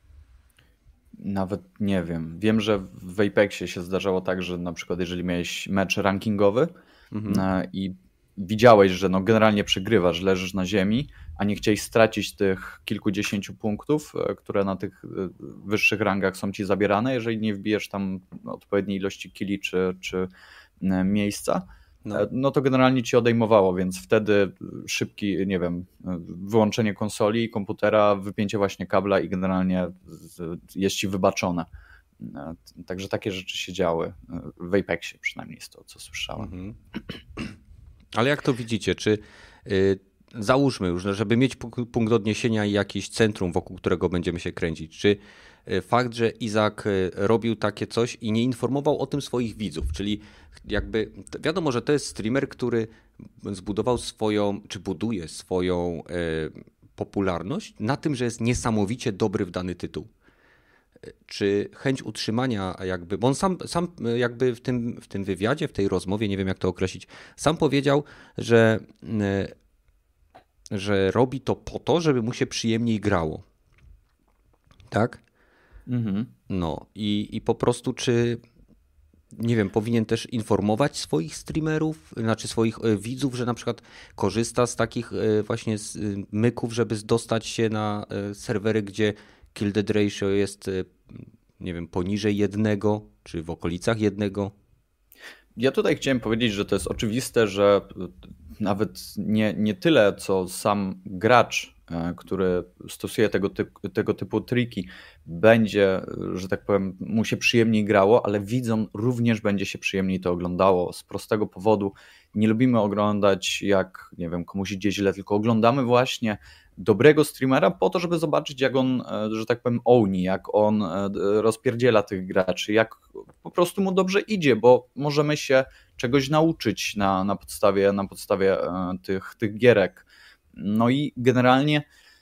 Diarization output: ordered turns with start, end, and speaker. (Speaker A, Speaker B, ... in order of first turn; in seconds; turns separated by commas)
Speaker A: 1.2-6.7, Speaker B: 7.1-7.4, Speaker A: 7.3-20.3, Speaker A: 20.8-31.7, Speaker A: 32.2-36.5, Speaker B: 36.4-36.8, Speaker B: 38.1-60.1, Speaker B: 61.2-69.5, Speaker B: 70.7-73.4, Speaker B: 74.9-75.2, Speaker A: 75.9-76.3, Speaker B: 76.5-78.4, Speaker B: 79.3-94.5, Speaker A: 95.6-131.8